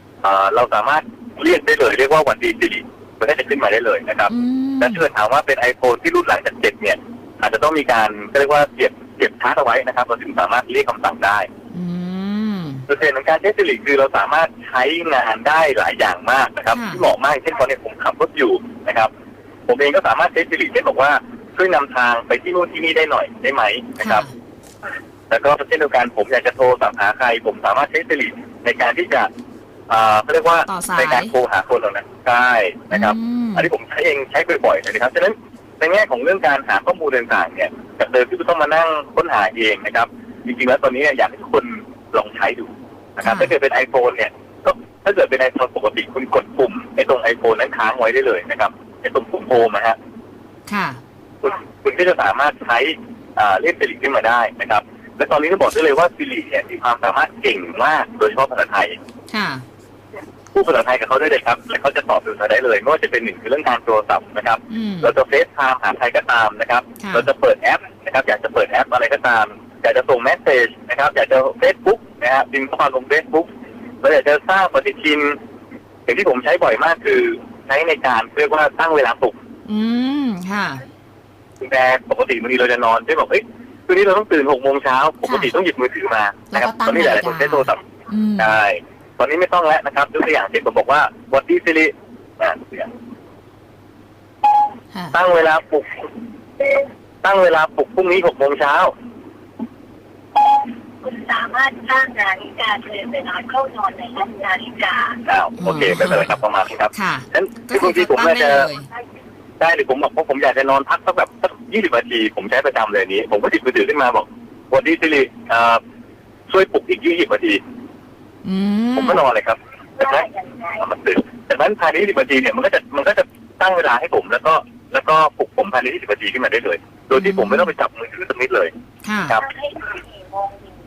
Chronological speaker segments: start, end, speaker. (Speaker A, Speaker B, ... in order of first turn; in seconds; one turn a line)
Speaker A: 0.2-11.5
Speaker B: 4.3-5.0
Speaker B: 11.7-12.8
Speaker A: 12.9-19.1
Speaker B: 16.7-17.1
Speaker A: 19.7-24.3
Speaker B: 24.0-24.3
Speaker A: 25.3-29.3
Speaker A: 29.9-50.0
Speaker B: 30.7-31.3
Speaker B: 32.9-33.7
Speaker B: 43.2-43.5
Speaker B: 50.7-51.0
Speaker A: 51.4-59.0
Speaker B: 59.3-59.6
Speaker A: 60.5-73.5
Speaker B: 64.7-65.1
Speaker B: 67.0-67.3
Speaker A: 74.0-75.4
Speaker A: 76.1-79.3
Speaker B: 79.7-80.9
Speaker A: 81.6-87.8
Speaker B: 85.2-85.5
Speaker B: 86.5-88.5
Speaker A: 88.4-92.9
Speaker A: 95.1-96.1
Speaker A: 97.2-98.9
Speaker C: 101.0-105.2
Speaker A: 105.2-108.7
Speaker B: 105.6-106.4
Speaker B: 106.9-108.9
Speaker A: 109.6-115.8
Speaker A: 116.5-117.6
Speaker B: 118.4-119.2
Speaker A: 119.0-128.7
Speaker B: 127.1-127.7
Speaker B: 129.0-129.4